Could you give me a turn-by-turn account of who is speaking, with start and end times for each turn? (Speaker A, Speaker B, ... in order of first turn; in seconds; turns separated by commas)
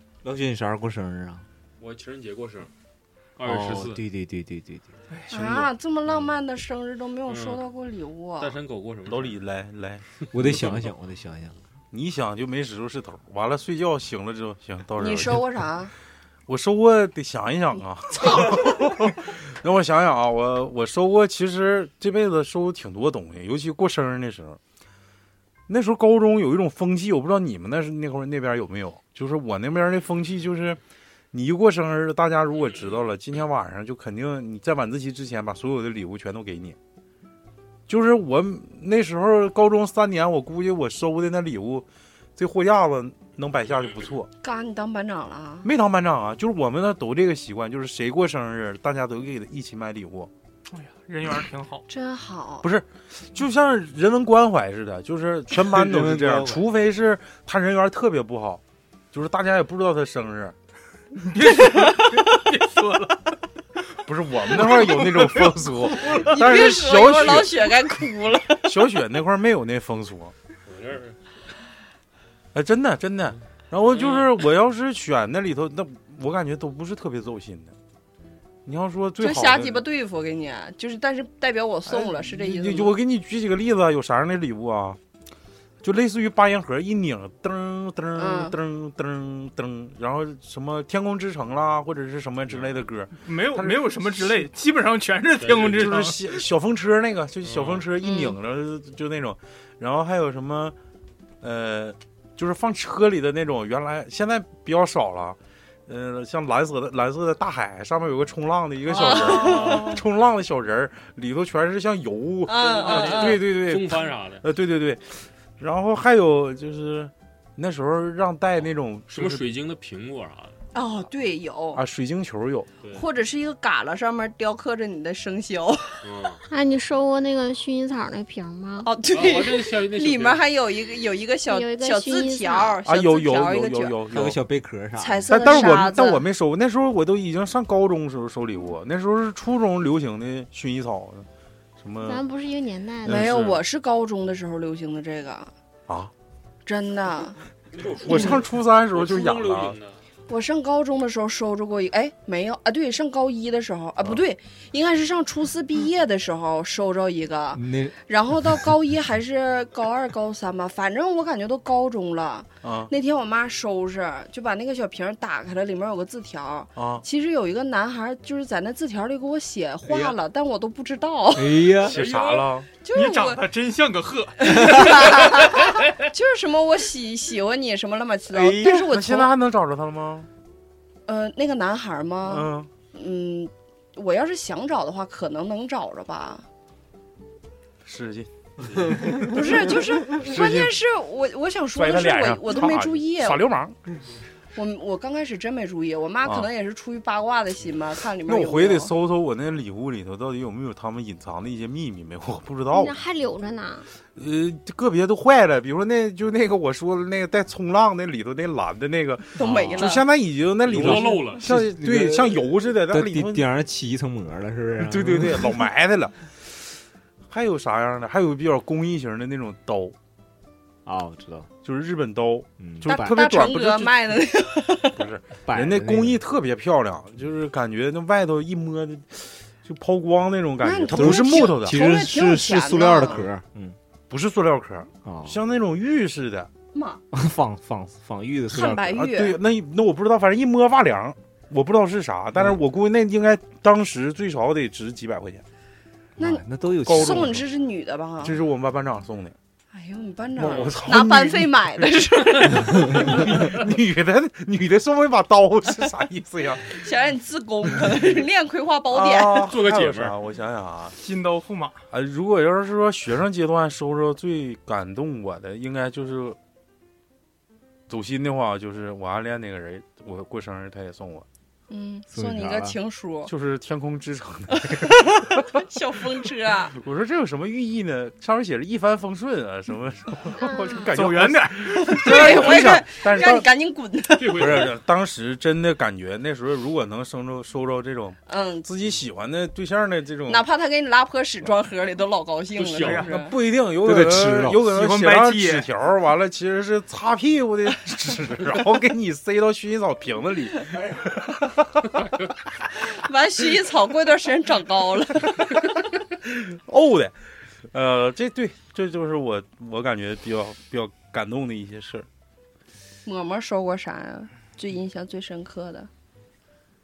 Speaker A: 0.2-1.4, Speaker B: 1.8-2.7, Speaker B: 3.4-4.0, Speaker A: 3.4-5.6, Speaker C: 5.1-5.4, Speaker D: 5.3-8.6, Speaker B: 7.3-7.7, Speaker B: 8.4-9.4, Speaker E: 9.1-10.7, Speaker A: 10.3-11.6, Speaker B: 10.4-10.8, Speaker E: 11.9-15.4, Speaker D: 15.0-15.9, Speaker E: 16.5-24.6, Speaker E: 25.7-30.8, Speaker E: 31.3-36.8, Speaker E: 37.9-41.9, Speaker E: 42.4-44.3, Speaker D: 44.4-45.7, Speaker E: 45.6-50.3, Speaker C: 50.7-51.9, Speaker D: 51.9-52.7, Speaker E: 52.6-60.5, Speaker A: 55.6-56.6, Speaker C: 61.2-63.4, Speaker E: 64.1-67.7, Speaker C: 64.7-65.6, Speaker D: 65.9-68.8, Speaker E: 68.6-70.3, Speaker B: 70.7-71.2, Speaker E: 72.5-77.7, Speaker B: 73.9-74.3, Speaker E: 78.7-79.8, Speaker D: 79.2-83.0, Speaker E: 81.9-85.0, Speaker E: 85.8-94.2, Speaker D: 88.2-88.6, Speaker B: 92.5-92.9, Speaker C: 93.2-96.4, Speaker B: 95.4-96.0, Speaker E: 95.7-100.8, Speaker B: 97.4-97.9, Speaker D: 98.0-98.4, Speaker E: 101.4-119.4, Speaker D: 108.9-110.0, Speaker B: 109.0-109.9, Speaker D: 112.5-113.5, Speaker B: 112.6-114.5, Speaker B: 119.1-120.6, Speaker D: 120.7-121.8, Speaker E: 121.8-122.7, Speaker B: 122.8-123.1, Speaker D: 122.9-126.0, Speaker B: 126.0-126.4, Speaker F: 126.5-128.9, Speaker D: 128.8-134.0, Speaker B: 129.1-130.5, Speaker F: 131.4-132.8, Speaker E: 132.9-134.4, Speaker A: 134.1-135.3, Speaker D: 135.0-136.2, Speaker E: 135.3-141.3, Speaker E: 141.8-142.2, Speaker F: 142.0-143.3, Speaker D: 143.1-145.5, Speaker E: 143.1-143.5, Speaker D: 146.7-147.4, Speaker B: 147.7-150.0, Speaker E: 148.0-149.8, Speaker D: 150.3-171.7, Speaker A: 157.5-158.6, Speaker E: 162.6-162.9, Speaker E: 166.8-167.0, Speaker A: 171.3-172.0, Speaker B: 171.8-172.6, Speaker E: 171.8-172.7, Speaker D: 172.8-173.4, Speaker C: 172.9-176.1, Speaker D: 174.4-179.3, Speaker A: 178.3-178.8, Speaker E: 178.9-180.3, Speaker D: 181.1-186.5, Speaker E: 182.3-182.7, Speaker E: 187.8-188.3, Speaker D: 189.2-193.4, Speaker E: 190.2-190.8, Speaker E: 191.8-193.8, Speaker D: 194.6-198.9, Speaker E: 198.3-203.0, Speaker F: 202.7-203.9, Speaker E: 204.2-213.5, Speaker D: 209.4-210.1, Speaker A: 209.4-209.9, Speaker B: 210.6-211.4, Speaker A: 210.7-215.6, Speaker E: 214.8-216.5, Speaker E: 217.3-219.9, Speaker A: 220.8-221.5, Speaker E: 221.6-224.0, Speaker A: 222.6-223.2, Speaker D: 222.9-225.0, Speaker E: 225.0-231.8, Speaker A: 225.5-226.2, Speaker D: 230.6-233.3, Speaker A: 230.9-233.8, Speaker E: 234.1-236.5, Speaker A: 235.0-235.4, Speaker D: 236.7-237.0, Speaker A: 237.1-239.1, Speaker D: 238.5-239.4, Speaker E: 239.0-245.4, Speaker A: 246.2-247.4, Speaker D: 246.2-248.4, Speaker E: 246.9-247.3, Speaker E: 248.2-249.3, Speaker D: 249.7-253.2, Speaker E: 250.4-256.8, Speaker B: 250.4-250.8, Speaker D: 256.7-259.6, Speaker E: 258.9-261.0, Speaker B: 259.4-260.2, Speaker C: 261.0-261.8, Speaker E: 261.9-266.4, Speaker E: 267.9-271.3, Speaker D: 271.7-273.3, Speaker A: 272.1-272.8, Speaker E: 273.3-275.6, Speaker D: 275.5-276.8, Speaker E: 276.8-283.5, Speaker F: 280.4-280.9, Speaker C: 280.9-282.4, Speaker D: 281.8-284.7, Speaker B: 284.1-284.7, Speaker E: 284.2-290.5, Speaker D: 288.3-288.7, Speaker D: 290.3-293.4, Speaker B: 292.6-293.1, Speaker C: 292.7-293.1, Speaker E: 293.1-301.9, Speaker A: 293.8-294.6, Speaker C: 294.6-295.7, Speaker D: 302.8-305.5, Speaker E: 306.2-307.1, Speaker E: 307.7-312.1, Speaker D: 313.1-315.9